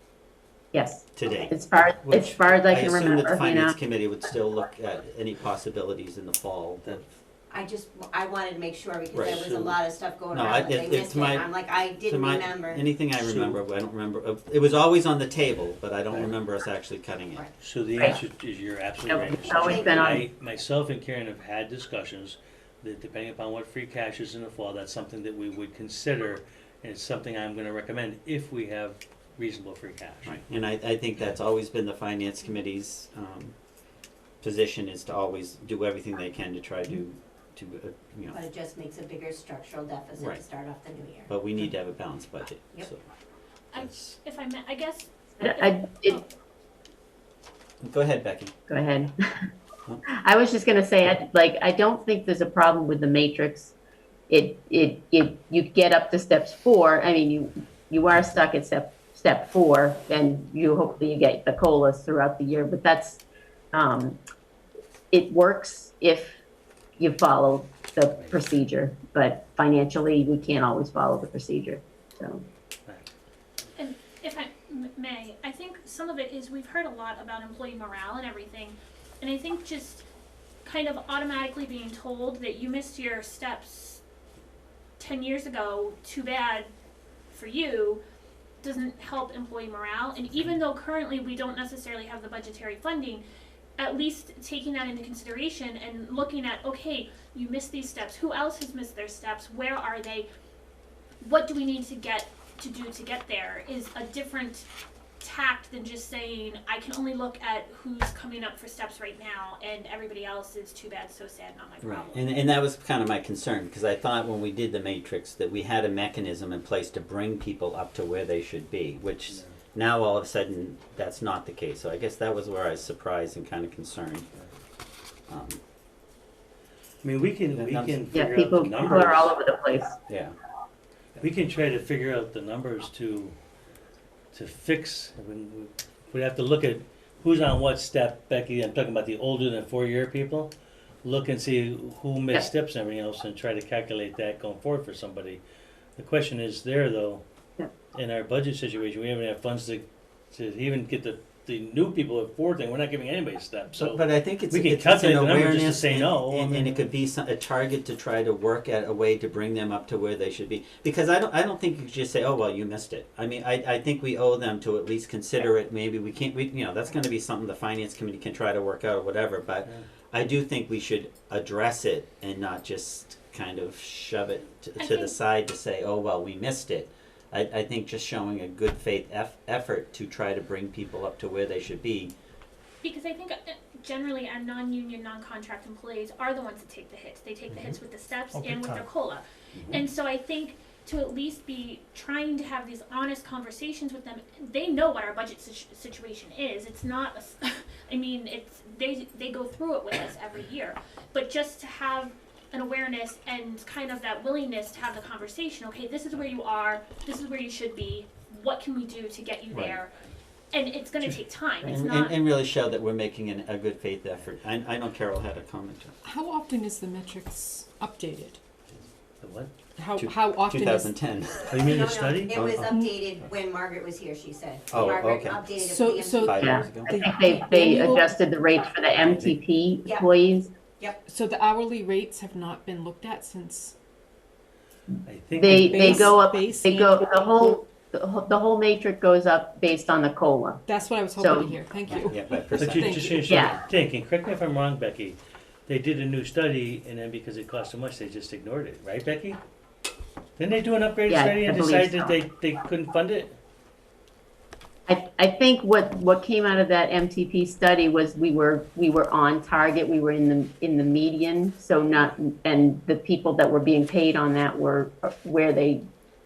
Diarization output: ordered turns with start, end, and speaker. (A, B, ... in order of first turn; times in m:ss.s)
0:00.7-0:03.8 A
0:01.2-0:07.0 B
0:07.5-0:12.8 C
0:09.1-0:09.4 B
0:09.2-0:09.8 D
0:10.3-0:17.4 B
0:13.2-0:13.6 D
0:16.1-0:16.4 D
0:17.6-0:30.4 D
0:19.1-0:20.2 A
0:19.5-0:20.1 C
0:30.2-0:33.6 B
0:34.4-0:38.4 B
0:38.3-0:41.3 C
0:40.2-0:40.4 B
0:41.3-0:43.0 B
0:43.7-0:46.2 E
0:45.4-0:46.2 A
0:47.8-0:48.5 B
0:48.7-0:49.5 A
0:50.1-0:53.7 A
0:54.3-1:03.2 A
1:03.7-1:04.2 A
1:05.1-1:06.4 A
1:07.0-1:12.4 A
1:08.1-1:08.5 D
1:13.8-1:20.1 E
1:20.6-1:24.0 E
1:25.0-1:26.7 E
1:27.3-1:28.0 E
1:28.6-1:33.2 E
1:33.8-1:40.3 E
1:41.2-1:44.7 E
1:45.2-1:52.2 E
1:51.8-2:04.3 B
1:59.3-1:59.6 D
2:05.3-2:05.6 B
2:07.0-2:09.3 D
2:07.5-2:08.0 B
2:08.1-2:10.0 A
2:10.1-2:10.4 B
2:11.2-2:13.4 D
2:14.3-2:20.5 D
2:21.0-2:25.4 D
2:26.0-2:27.2 D
2:27.9-2:36.9 D
2:33.8-3:02.1 B
2:54.8-2:55.2 E
3:02.8-3:29.9 E
3:08.5-3:08.8 D
3:09.6-3:09.8 B
3:29.5-3:29.8 B
3:30.5-3:32.2 E
3:31.6-3:35.9 B
3:36.0-3:38.4 F
3:39.2-3:39.5 D
3:39.8-3:40.9 F
3:40.0-3:41.5 B
3:41.5-3:42.5 D
3:41.6-3:46.4 C
3:42.3-3:42.7 B
3:44.7-3:45.5 B
3:45.6-3:48.2 F
3:46.2-3:47.0 B
3:46.3-3:50.5 A
3:49.0-3:49.3 D
3:51.1-3:53.8 F
3:55.0-3:56.0 D
3:55.4-4:00.6 A
3:55.5-3:57.5 F
4:00.7-4:03.4 F
4:01.2-4:01.5 A
4:01.9-4:03.2 B
4:02.6-4:09.4 D
4:03.2-4:03.6 A
4:10.4-4:13.4 D
4:11.1-4:12.2 A
4:14.9-4:25.8 A